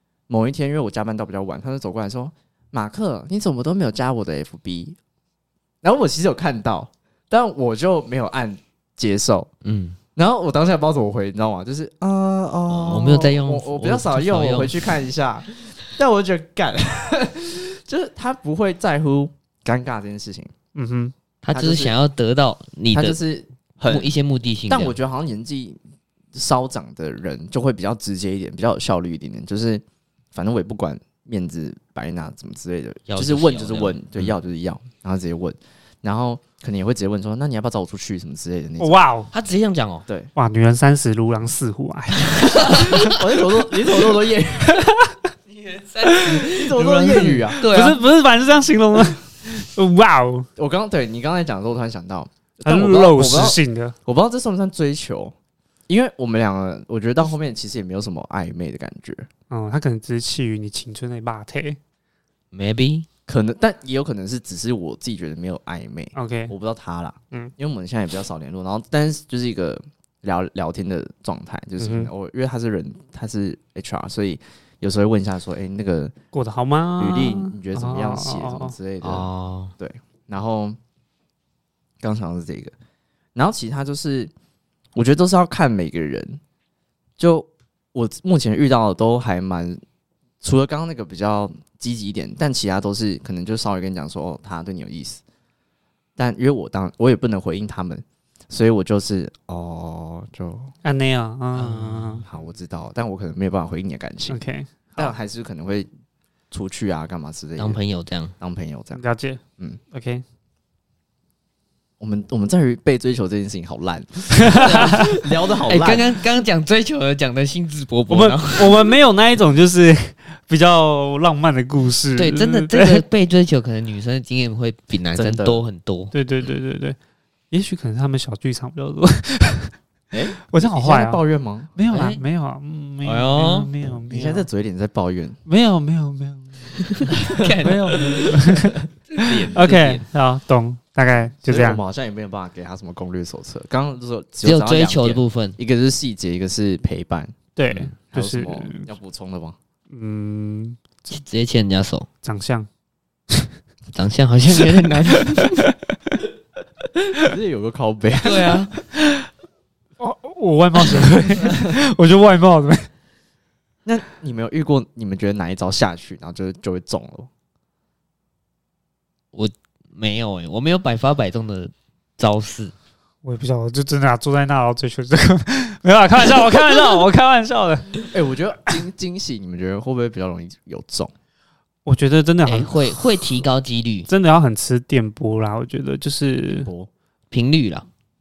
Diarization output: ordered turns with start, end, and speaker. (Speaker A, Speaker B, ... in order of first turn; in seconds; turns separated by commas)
Speaker A: 0.3-5.0, Speaker A: 5.8-9.5, Speaker B: 9.6-10.0, Speaker A: 10.1-20.5, Speaker B: 12.7-14.9, Speaker C: 20.7-21.1, Speaker B: 21.4-23.2, Speaker A: 21.5-21.9, Speaker A: 22.9-24.1, Speaker B: 23.9-25.0, Speaker A: 24.7-25.8, Speaker A: 26.3-29.8, Speaker A: 30.3-39.0, Speaker B: 33.1-34.3, Speaker C: 38.8-39.3, Speaker B: 39.3-40.0, Speaker C: 40.4-43.1, Speaker A: 42.5-44.9, Speaker B: 42.5-43.1, Speaker C: 44.8-45.1, Speaker B: 45.5-48.0, Speaker C: 46.0-46.4, Speaker A: 46.3-47.7, Speaker C: 47.6-50.5, Speaker A: 50.6-55.3, Speaker C: 52.6-53.9, Speaker A: 55.9-59.3, Speaker C: 59.5-61.8, Speaker B: 62.5-63.1, Speaker A: 63.3-76.1, Speaker C: 66.1-66.5, Speaker C: 71.8-72.1, Speaker C: 76.3-78.7, Speaker A: 77.0-80.8, Speaker B: 79.0-79.7, Speaker A: 82.0-82.7, Speaker A: 83.3-84.3, Speaker A: 84.9-86.4, Speaker A: 87.2-89.8, Speaker A: 90.4-95.2, Speaker A: 96.2-100.7, Speaker C: 100.8-102.2, Speaker B: 101.5-102.2, Speaker A: 102.2-104.4, Speaker C: 104.3-105.1, Speaker A: 105.0-105.9, Speaker A: 106.5-107.8, Speaker B: 107.6-108.3, Speaker A: 108.4-109.0, Speaker C: 108.9-110.2, Speaker A: 112.0-116.1, Speaker C: 114.4-115.0, Speaker B: 114.7-118.9, Speaker C: 118.1-123.0, Speaker B: 122.2-126.1, Speaker A: 125.1-125.6, Speaker C: 126.1-127.0, Speaker C: 127.5-129.7, Speaker A: 130.1-131.7, Speaker C: 130.5-131.2, Speaker C: 131.8-134.5, Speaker B: 131.9-132.2, Speaker B: 133.0-133.7, Speaker A: 134.1-135.4, Speaker C: 135.4-137.1, Speaker B: 136.8-139.5, Speaker C: 137.6-141.8, Speaker A: 139.2-140.1, Speaker A: 141.4-147.3, Speaker B: 144.4-145.6, Speaker C: 147.6-148.9, Speaker A: 148.1-149.6, Speaker C: 149.9-151.1, Speaker B: 151.1-152.1, Speaker C: 152.2-152.7, Speaker B: 153.9-155.7, Speaker C: 154.7-156.1, Speaker A: 157.2-158.6, Speaker B: 158.2-158.7, Speaker C: 160.0-162.9, Speaker A: 163.8-167.3, Speaker B: 169.3-172.7, Speaker C: 173.2-178.1, Speaker A: 178.1-181.1, Speaker C: 181.8-182.8, Speaker B: 182.4-184.1, Speaker C: 184.1-186.7, Speaker A: 186.6-186.9, Speaker B: 187.3-187.9